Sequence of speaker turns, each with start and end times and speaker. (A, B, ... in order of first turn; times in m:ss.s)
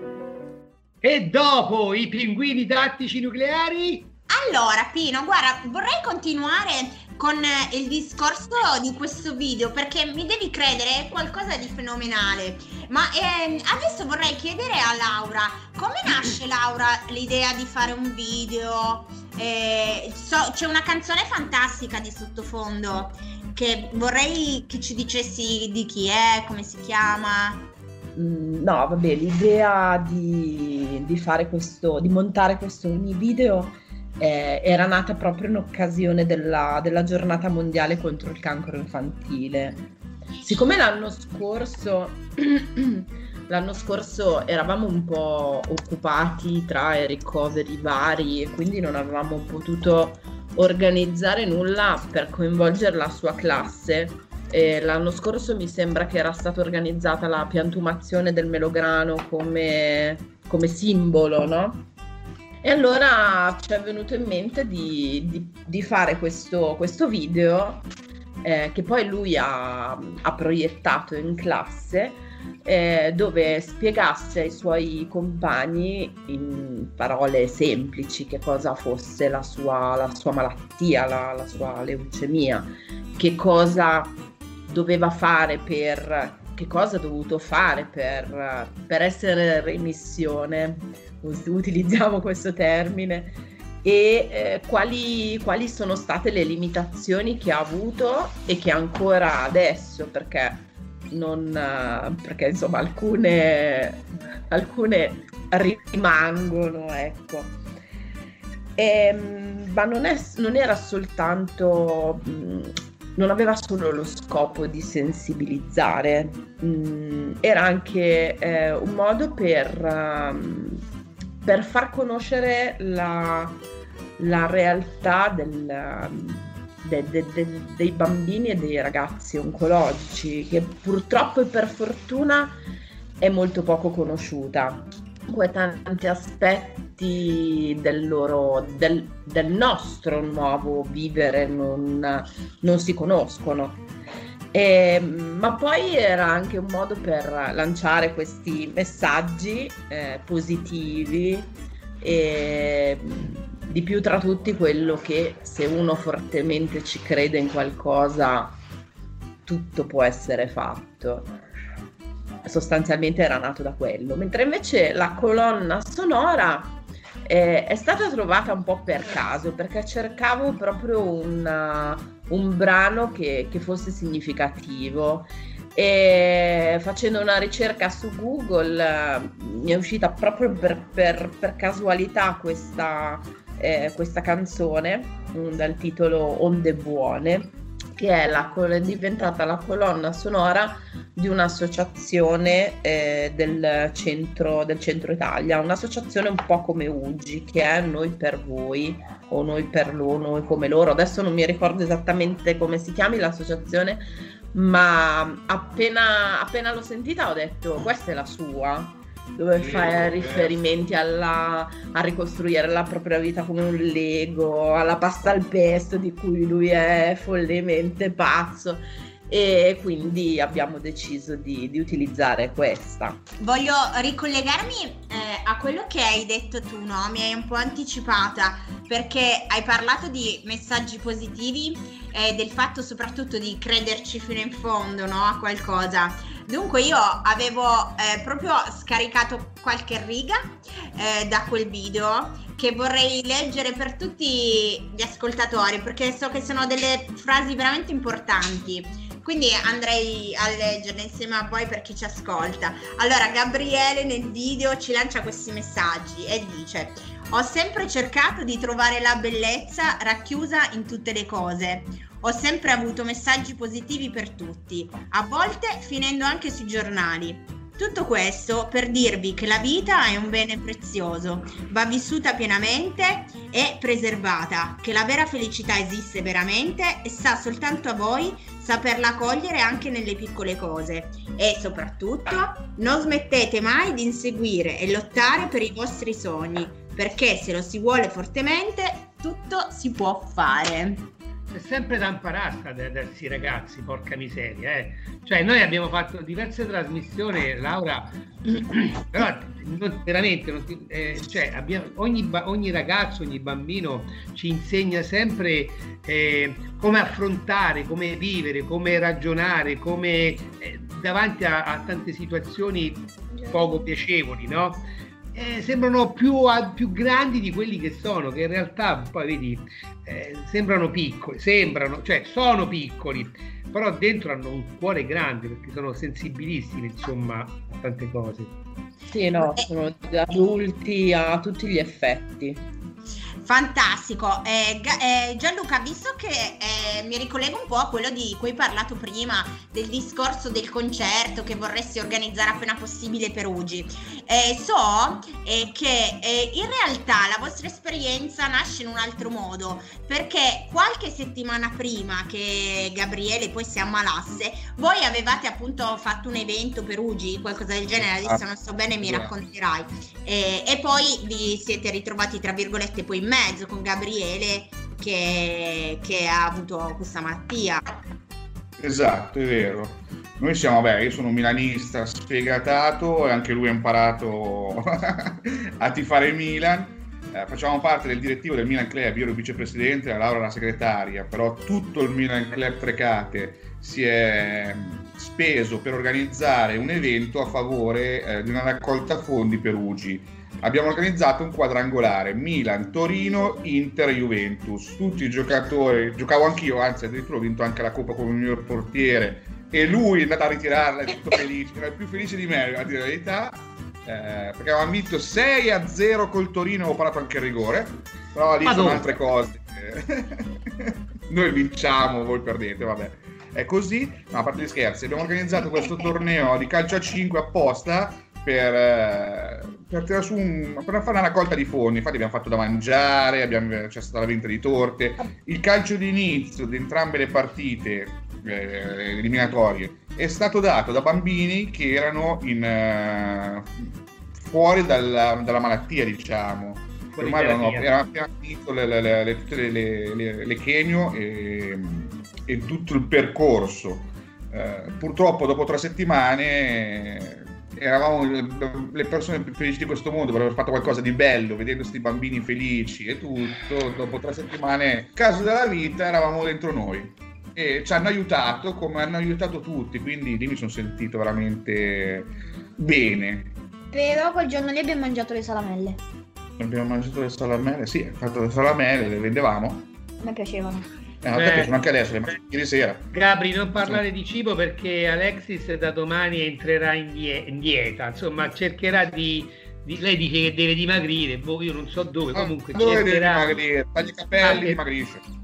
0:01.0-0:04.1 A
0:04.3-0:27.7 B
0:28.2-0:39.8 C
0:40.4-1:01.9 C
1:02.6-1:07.9 C
1:08.4-1:24.2 C
1:24.7-1:47.6 C
1:48.8-2:00.8 C
2:01.4-2:03.6 C
2:04.2-2:12.6 C
2:13.2-2:23.8 C
2:24.5-2:31.5 C
2:32.0-2:38.6 C
2:39.4-2:41.3 C
2:42.4-3:43.2 C
3:29.5-3:30.6 D
3:43.4-4:51.1 B
4:51.5-5:28.5 A
5:13.3-5:13.8 E
5:29.1-5:32.6 C
5:33.4-6:07.8 B
5:58.0-5:58.4 D
5:59.0-5:59.3 D
6:08.8-7:43.5 D
6:48.6-6:49.1 A
7:17.1-7:17.9 A
7:43.9-7:46.0 E
7:46.6-7:49.9 D
7:50.2-7:50.9 E
7:51.2-7:53.1 D
7:51.4-7:51.8 A
7:53.1-8:03.6 A
8:02.3-8:05.2 D
8:04.4-8:04.8 A